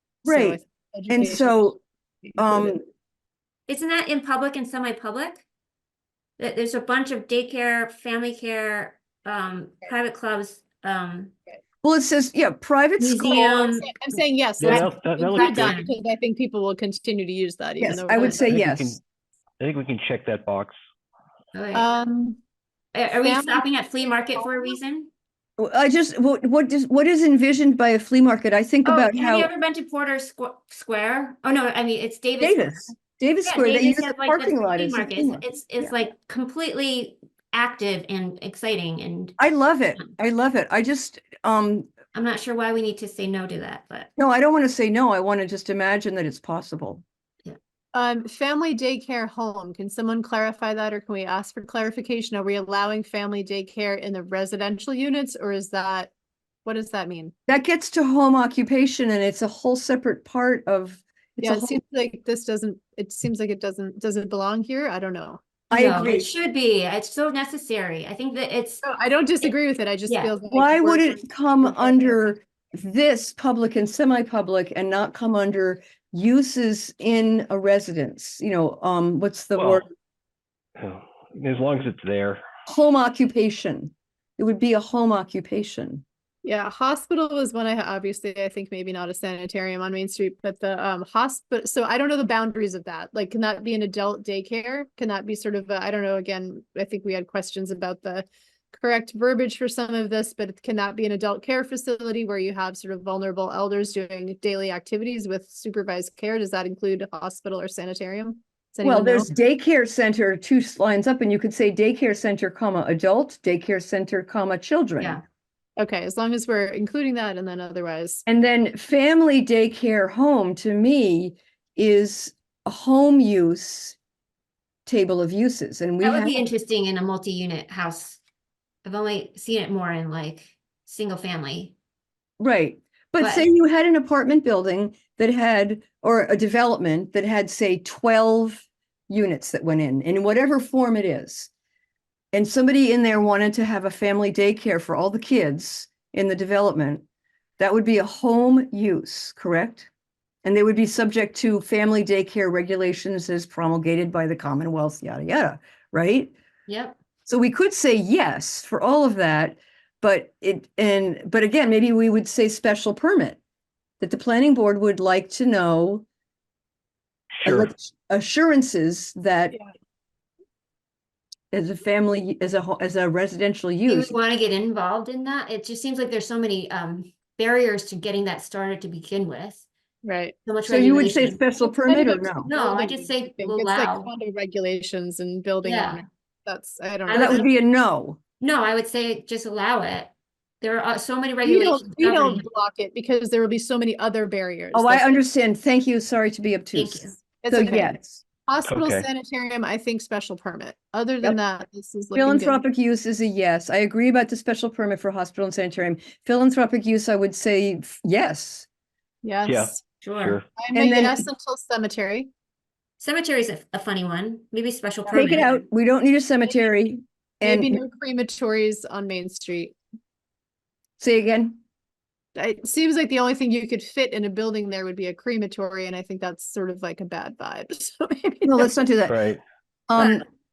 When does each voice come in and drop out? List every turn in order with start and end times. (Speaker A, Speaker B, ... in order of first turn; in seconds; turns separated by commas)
Speaker A: 0.2-1.8, Speaker B: 0.2-2.8, Speaker A: 2.4-2.8, Speaker C: 3.7-5.5, Speaker C: 6.4-11.3, Speaker A: 11.8-13.6, Speaker C: 13.0-13.9, Speaker B: 13.6-18.5, Speaker D: 14.6-15.8, Speaker C: 14.6-15.9, Speaker A: 17.8-19.0, Speaker D: 18.4-19.0, Speaker D: 19.6-20.8, Speaker C: 21.5-21.9, Speaker B: 21.7-22.4, Speaker C: 22.9-25.1, Speaker B: 23.2-23.7, Speaker B: 24.3-24.8, Speaker A: 25.6-29.5, Speaker C: 28.8-32.9, Speaker A: 32.4-35.9, Speaker C: 33.4-40.1, Speaker A: 39.4-41.9, Speaker C: 42.1-44.1, Speaker A: 44.2-47.0, Speaker B: 47.9-56.1, Speaker B: 56.6-57.3, Speaker A: 57.5-61.8, Speaker B: 61.4-65.4, Speaker A: 65.7-66.3, Speaker C: 65.7-68.8, Speaker B: 68.8-72.2, Speaker C: 70.1-70.3, Speaker A: 70.5-79.9, Speaker D: 79.6-79.8, Speaker D: 80.8-82.4, Speaker A: 82.7-86.0, Speaker B: 86.4-109.3, Speaker A: 108.8-115.2, Speaker B: 115.8-118.2, Speaker A: 118.3-124.0, Speaker A: 124.8-126.5, Speaker C: 126.0-128.2, Speaker C: 128.8-131.7, Speaker A: 132.4-141.5, Speaker C: 133.2-133.5, Speaker A: 142.3-147.0, Speaker A: 147.6-149.9, Speaker A: 150.4-156.3, Speaker C: 156.7-157.0, Speaker A: 157.2-163.4, Speaker A: 164.0-166.1, Speaker D: 167.4-167.7, Speaker A: 167.4-169.6, Speaker A: 171.5-174.2, Speaker C: 173.9-179.6, Speaker B: 180.0-180.3, Speaker C: 180.4-181.4, Speaker A: 180.6-182.5, Speaker B: 181.6-187.4, Speaker C: 182.3-184.1, Speaker C: 185.6-186.0, Speaker C: 187.1-187.5, Speaker A: 187.1-188.2, Speaker C: 188.4-192.4, Speaker B: 191.4-195.2, Speaker A: 194.7-198.2, Speaker C: 196.7-197.2, Speaker B: 197.4-202.6, Speaker D: 198.6-199.1, Speaker A: 202.1-208.7, Speaker B: 209.2-209.8, Speaker D: 209.4-210.5, Speaker C: 210.0-210.4, Speaker B: 210.6-212.3, Speaker A: 210.7-211.2, Speaker C: 213.0-215.5, Speaker B: 215.1-215.5, Speaker A: 215.1-217.8, Speaker B: 217.4-219.8, Speaker A: 221.0-221.6, Speaker B: 222.3-228.8, Speaker A: 228.4-229.1, Speaker D: 229.1-229.4, Speaker A: 229.9-230.2